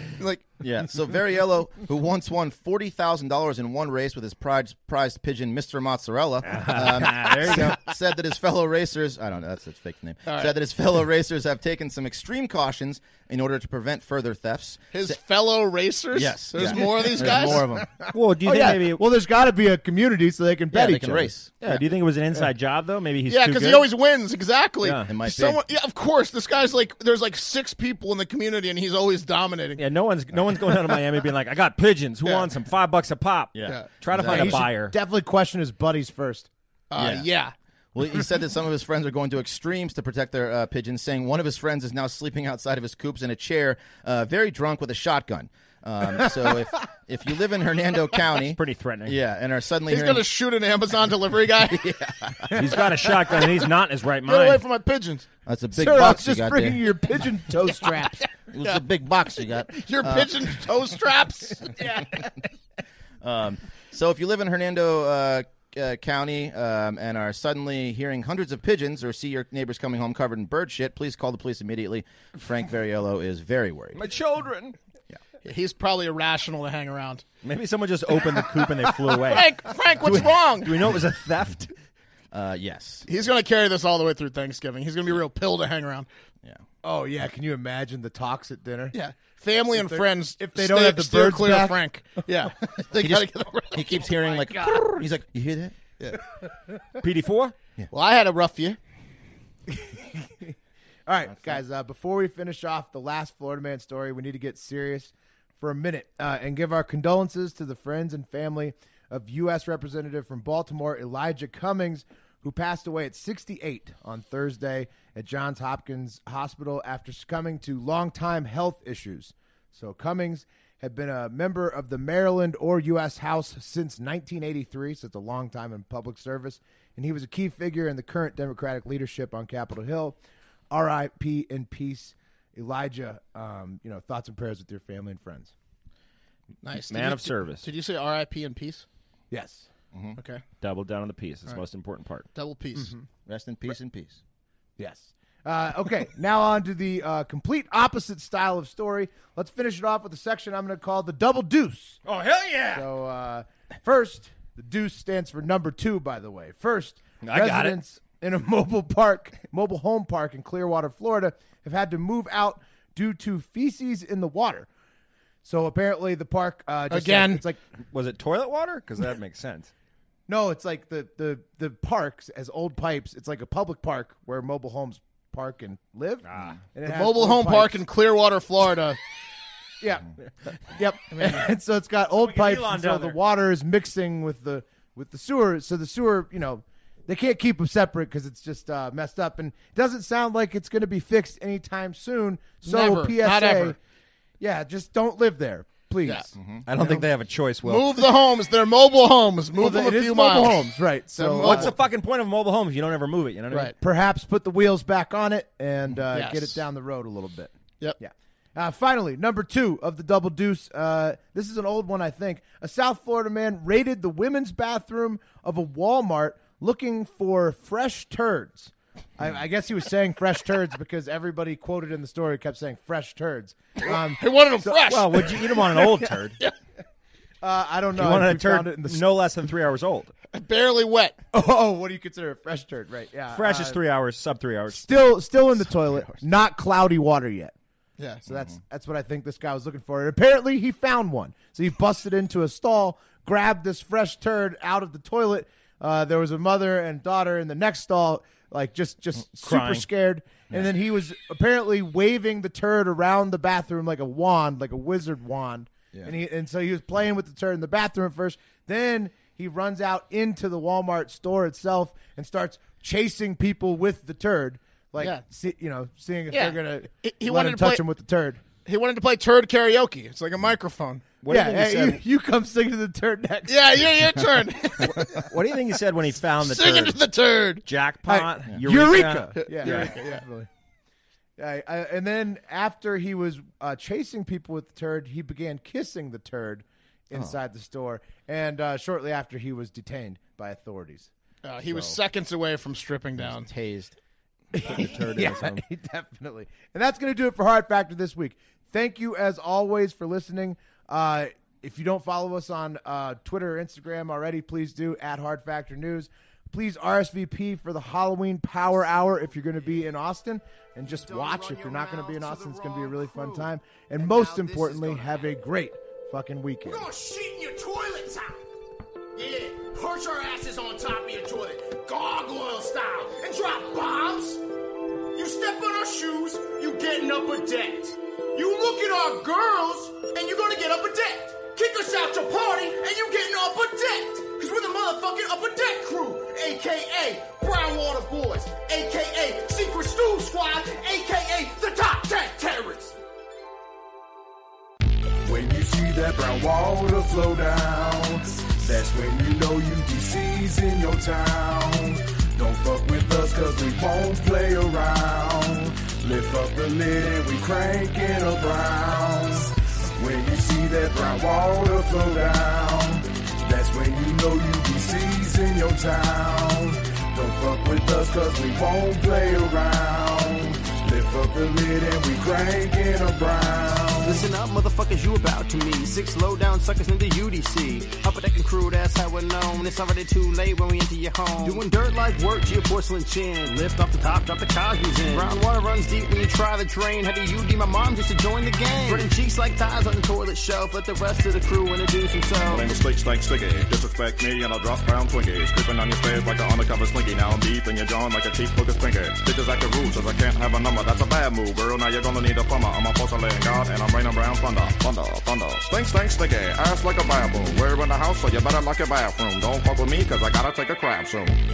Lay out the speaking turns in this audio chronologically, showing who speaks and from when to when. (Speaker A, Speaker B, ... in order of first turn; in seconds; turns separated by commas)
Speaker A: 0.2-0.6, Speaker B: 0.6-15.2, Speaker C: 6.4-7.8, Speaker A: 10.2-10.5, Speaker A: 14.9-17.7, Speaker B: 16.1-18.0, Speaker C: 18.1-19.0, Speaker D: 18.4-21.3, Speaker B: 20.7-21.6, Speaker C: 21.6-23.9, Speaker A: 23.3-29.8, Speaker C: 24.8-25.1, Speaker B: 25.1-25.6, Speaker C: 29.8-35.0, Speaker B: 33.5-34.6, Speaker D: 34.2-36.5, Speaker A: 36.9-37.5, Speaker B: 37.0-37.3, Speaker B: 37.9-50.2, Speaker C: 48.5-49.1, Speaker A: 49.9-51.9, Speaker B: 51.6-52.6, Speaker C: 52.5-54.6, Speaker A: 54.2-55.2, Speaker B: 55.5-56.8, Speaker D: 55.7-58.3, Speaker B: 58.5-60.6, Speaker A: 59.4-61.9, Speaker B: 63.2-74.0, Speaker C: 73.9-74.8, Speaker A: 75.4-77.2, Speaker C: 77.4-81.7, Speaker A: 79.2-80.9, Speaker B: 82.3-83.0, Speaker A: 83.0-86.1, Speaker D: 86.8-89.0, Speaker A: 88.9-94.2, Speaker D: 89.7-91.8, Speaker B: 93.0-95.8, Speaker D: 94.4-94.7, Speaker C: 97.0-97.5, Speaker A: 97.9-98.8, Speaker D: 99.7-100.5, Speaker D: 101.0-130.2, Speaker D: 130.7-135.5, Speaker A: 136.6-138.8, Speaker C: 136.9-137.7, Speaker D: 139.3-139.7, Speaker B: 139.9-140.2, Speaker A: 140.2-140.4, Speaker C: 140.6-142.2, Speaker A: 142.3-142.9, Speaker B: 143.2-144.2, Speaker D: 144.8-152.0, Speaker C: 152.0-152.9, Speaker D: 152.7-164.7, Speaker C: 157.2-157.8, Speaker D: 165.4-167.6, Speaker A: 166.9-167.4, Speaker C: 167.9-169.7, Speaker D: 170.3-177.8, Speaker C: 176.2-176.6, Speaker A: 176.8-179.0, Speaker D: 179.8-193.8, Speaker A: 181.1-181.4, Speaker C: 182.1-183.2, Speaker A: 192.6-193.8, Speaker D: 194.4-197.0, Speaker B: 196.3-196.6, Speaker C: 196.7-197.9, Speaker A: 197.6-201.7, Speaker D: 199.6-201.7, Speaker C: 201.4-203.7, Speaker D: 203.8-224.8, Speaker A: 206.1-206.6, Speaker A: 223.8-226.5, Speaker C: 224.8-226.4, Speaker D: 227.4-229.1, Speaker C: 227.9-230.1, Speaker A: 230.3-231.2, Speaker D: 231.3-233.8, Speaker C: 233.3-235.0, Speaker D: 234.7-237.5, Speaker A: 238.0-238.2, Speaker D: 238.2-268.4, Speaker C: 249.4-249.8, Speaker A: 266.3-267.8, Speaker A: 268.6-271.0, Speaker C: 271.2-272.0, Speaker D: 271.3-274.9, Speaker A: 273.5-275.2, Speaker C: 274.8-277.0, Speaker A: 276.4-277.6, Speaker C: 277.6-279.9, Speaker D: 278.1-280.5, Speaker A: 279.4-280.2, Speaker D: 281.4-291.1, Speaker A: 291.4-293.5, Speaker B: 293.2-293.9, Speaker D: 294.5-316.9, Speaker B: 294.6-295.5, Speaker C: 294.7-295.5, Speaker E: 310.9-315.3, Speaker E: 316.6-318.4, Speaker E: 319.1-324.4, Speaker E: 325.1-343.0, Speaker F: 345.2-374.2, Speaker G: 374.0-392.6, Speaker E: 374.1-375.3, Speaker E: 376.2-377.2, Speaker E: 378.8-379.1, Speaker E: 381.1-384.2, Speaker E: 384.9-385.4, Speaker E: 388.3-389.3, Speaker H: 392.4-411.4